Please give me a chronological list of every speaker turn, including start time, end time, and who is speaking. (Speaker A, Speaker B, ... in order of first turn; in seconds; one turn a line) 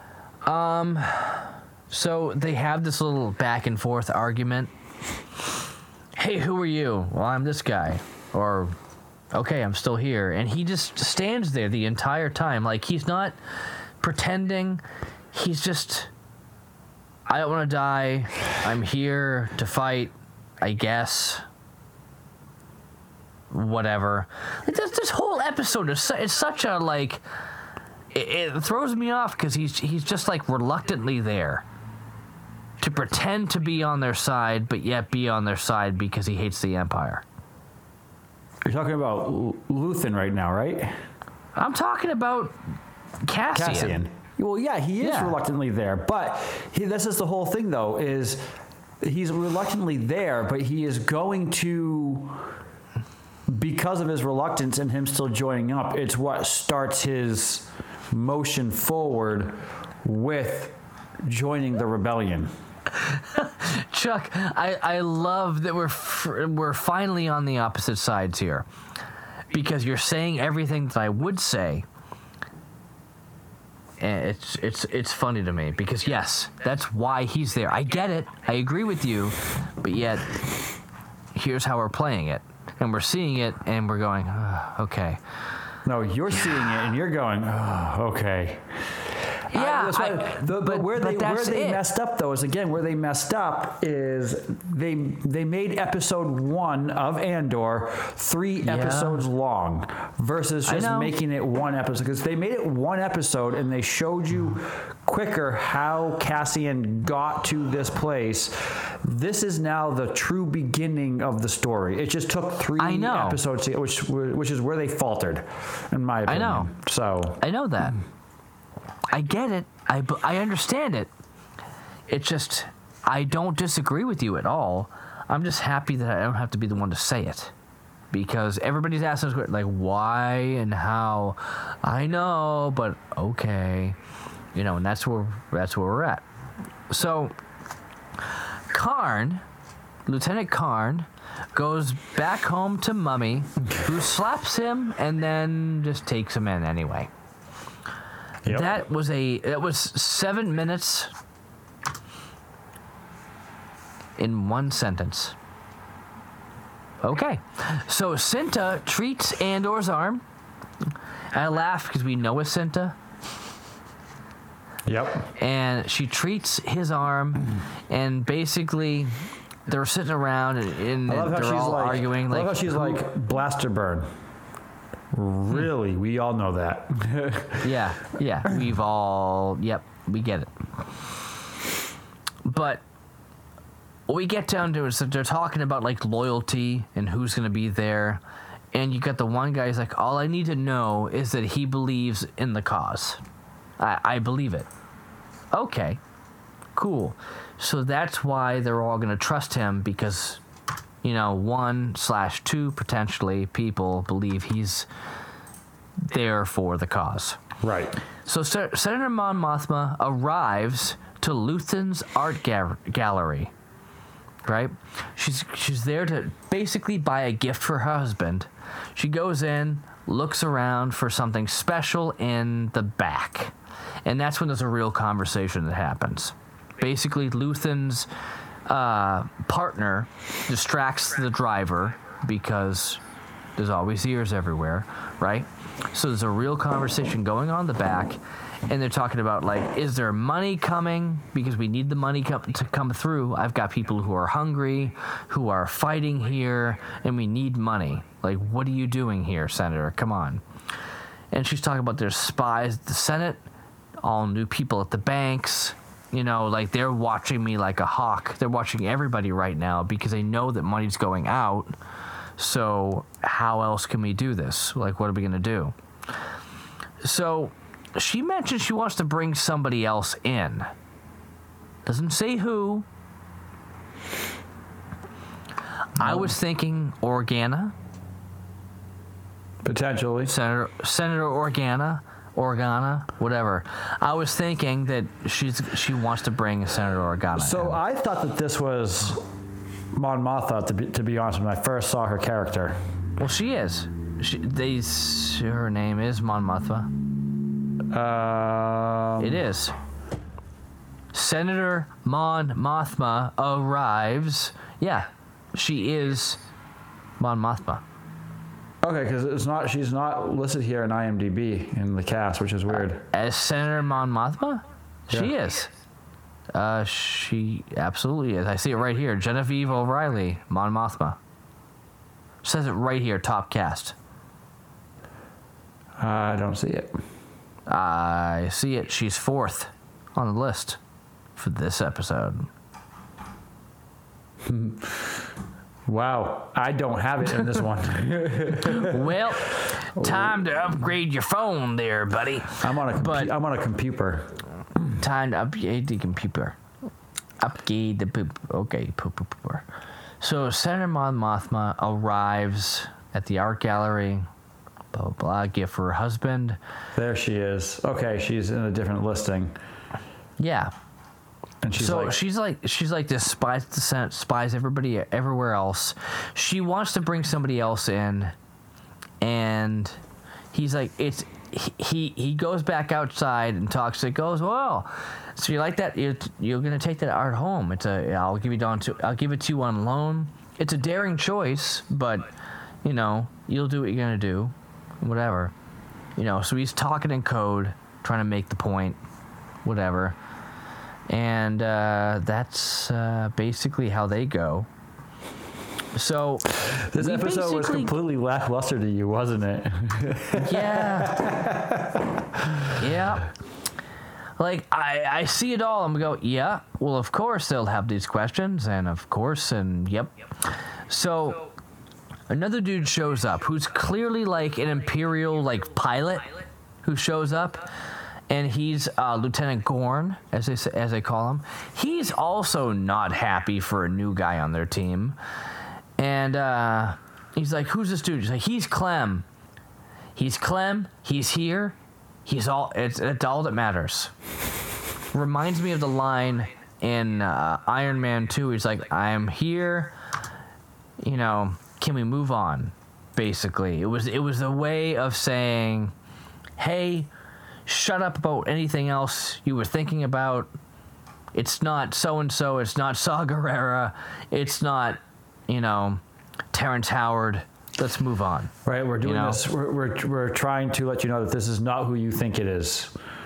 Speaker A: 0.5-4.7
Speaker A: 6.2-8.8
Speaker A: 9.3-13.4
Speaker A: 14.0-14.8
Speaker A: 15.3-16.1
Speaker A: 17.3-21.4
Speaker A: 23.5-27.2
Speaker A: 28.1-31.6
Speaker A: 32.8-37.2
Speaker B: 38.6-40.9
Speaker A: 41.5-42.6
Speaker A: 43.2-44.0
Speaker B: 43.5-48.5
Speaker A: 45.0-45.4
Speaker B: 49.0-52.5
Speaker B: 53.5-62.5
Speaker A: 63.0-68.7
Speaker A: 69.5-71.9
Speaker A: 74.0-80.5
Speaker A: 81.3-85.2
Speaker B: 85.8-117.4
Speaker A: 89.5-91.8
Speaker A: 98.7-99.2
Speaker A: 100.7-101.1
Speaker A: 112.8-113.4
Speaker A: 116.3-116.7
Speaker A: 117.4-118.0
Speaker A: 119.1-121.1
Speaker A: 122.1-127.5
Speaker A: 128.1-134.0
Speaker A: 134.6-136.2
Speaker A: 136.9-137.3
Speaker A: 138.7-139.4
Speaker A: 140.1-147.1
Speaker A: 148.5-151.1
Speaker A: 154.2-155.4
Speaker A: 157.0-160.2
Speaker A: 161.3-163.0
Speaker B: 164.9-165.3
Speaker A: 165.4-173.0
Speaker B: 171.1-174.1
Speaker B: 175.1-177.8
Speaker A: 177.6-180.5
Speaker A: 182.4-182.8
Speaker A: 184.1-188.2
Speaker A: 188.7-193.2
Speaker A: 193.8-194.7
Speaker A: 195.5-196.0
Speaker A: 196.8-200.4
Speaker A: 201.0-204.9
Speaker A: 206.0-207.4
Speaker B: 207.6-208.0
Speaker A: 208.2-213.5
Speaker A: 214.4-223.5
Speaker A: 224.1-228.1
Speaker A: 228.7-233.0
Speaker A: 233.6-250.4
Speaker A: 251.3-253.4
Speaker A: 254.0-261.7
Speaker A: 262.4-265.8
Speaker A: 267.0-270.7
Speaker A: 271.9-272.9
Speaker A: 276.0-277.7
Speaker B: 276.0-276.3
Speaker B: 279.6-280.3
Speaker A: 280.3-287.8
Speaker B: 287.4-289.3
Speaker B: 289.9-292.8
Speaker A: 293.2-296.9
Speaker B: 297.9-299.4
Speaker A: 299.2-299.8
Speaker A: 301.1-306.4
Speaker A: 307.2-307.8
Speaker B: 308.8-313.0
Speaker A: 312.7-315.7
Speaker A: 316.5-321.2
Speaker A: 322.4-323.9
Speaker B: 326.0-326.9
Speaker A: 327.7-330.8
Speaker A: 331.4-332.5
Speaker B: 334.5-335.2
Speaker B: 335.9-339.2
Speaker A: 338.6-343.3
Speaker B: 340.0-340.4
Speaker B: 342.6-344.4
Speaker A: 344.9-346.6
Speaker A: 347.4-349.6
Speaker A: 350.2-354.3
Speaker A: 354.9-356.6
Speaker B: 356.9-359.6
Speaker A: 360.4-360.7
Speaker B: 361.6-362.2
Speaker A: 361.8-368.3
Speaker A: 369.2-370.0
Speaker A: 370.5-382.3
Speaker A: 382.8-385.5
Speaker A: 386.2-389.0
Speaker A: 389.6-390.2
Speaker A: 391.1-394.7
Speaker A: 395.9-397.9
Speaker B: 396.6-402.8
Speaker A: 400.4-401.2
Speaker A: 402.7-403.3
Speaker A: 404.4-411.5
Speaker A: 412.3-417.7
Speaker A: 418.3-425.2
Speaker A: 426.0-429.3
Speaker A: 430.2-434.1
Speaker A: 435.1-439.9
Speaker A: 441.0-445.9
Speaker A: 446.6-447.1
Speaker A: 447.7-450.5
Speaker A: 451.3-456.0
Speaker A: 456.5-459.4
Speaker B: 458.6-462.9